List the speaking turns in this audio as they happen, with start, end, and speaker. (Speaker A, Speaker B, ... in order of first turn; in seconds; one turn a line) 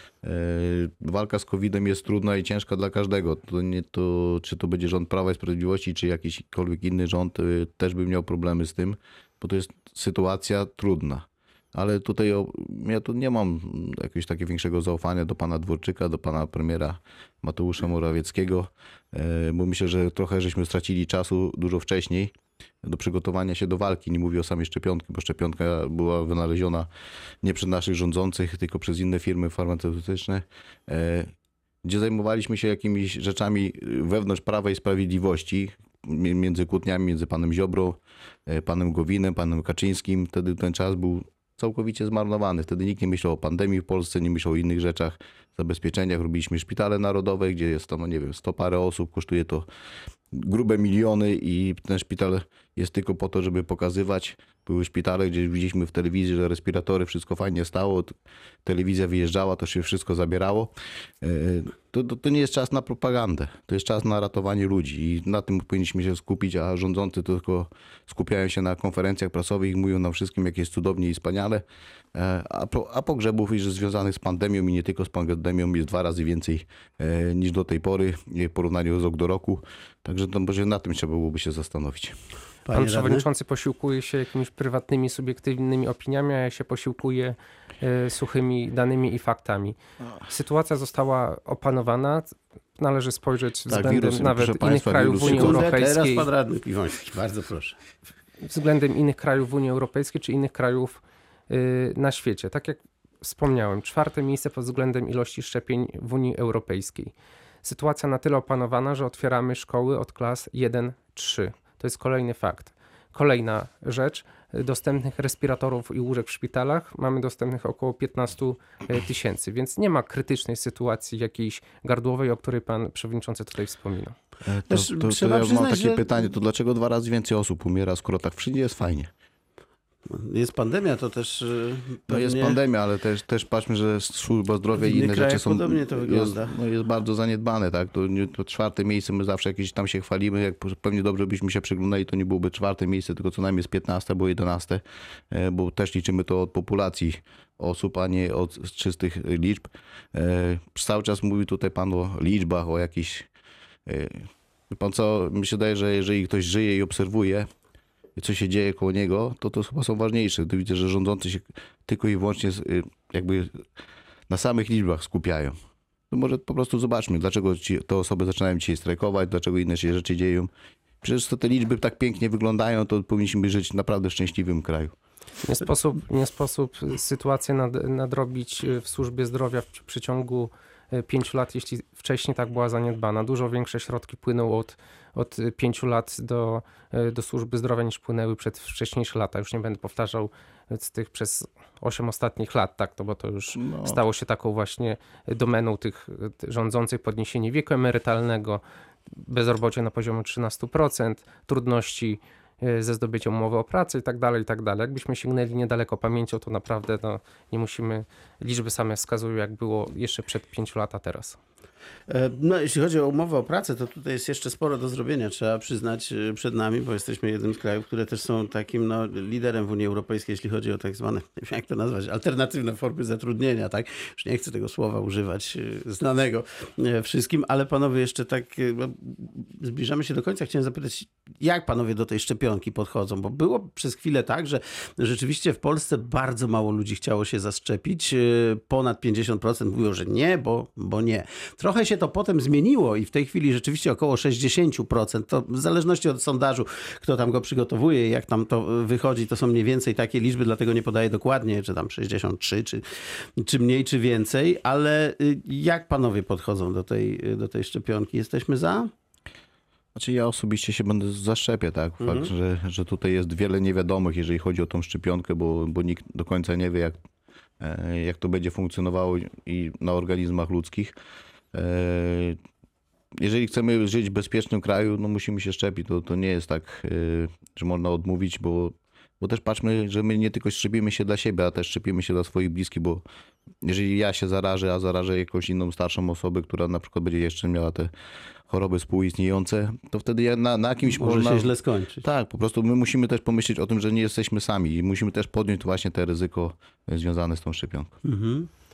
Speaker A: 0.2-22.3
Speaker A: 22.8-26.9
Speaker A: 27.4-31.3
Speaker A: 31.8-49.6
Speaker A: 50.3-58.1
Speaker A: 58.6-82.2
Speaker B: 82.7-83.2
Speaker C: 82.7-96.3
Speaker A: 93.7-95.7
Speaker B: 95.2-97.8
Speaker C: 98.4-124.1
Speaker A: 124.4-129.1
Speaker B: 124.7-126.1
Speaker B: 130.1-132.6
Speaker A: 132.1-153.3
Speaker B: 134.7-136.5
Speaker A: 153.8-157.5
Speaker A: 158.2-163.6
Speaker A: 164.3-165.5
Speaker A: 166.1-170.5
Speaker A: 171.0-174.9
Speaker C: 175.4-211.4
Speaker A: 193.5-194.0
Speaker B: 212.1-252.8
Speaker B: 253.4-258.9
Speaker A: 259.9-267.0
Speaker B: 262.0-262.3
Speaker A: 267.6-270.9
Speaker A: 271.5-272.4
Speaker A: 273.1-283.0
Speaker A: 283.6-287.9
Speaker A: 288.5-297.9
Speaker B: 290.8-292.0
Speaker B: 298.0-298.5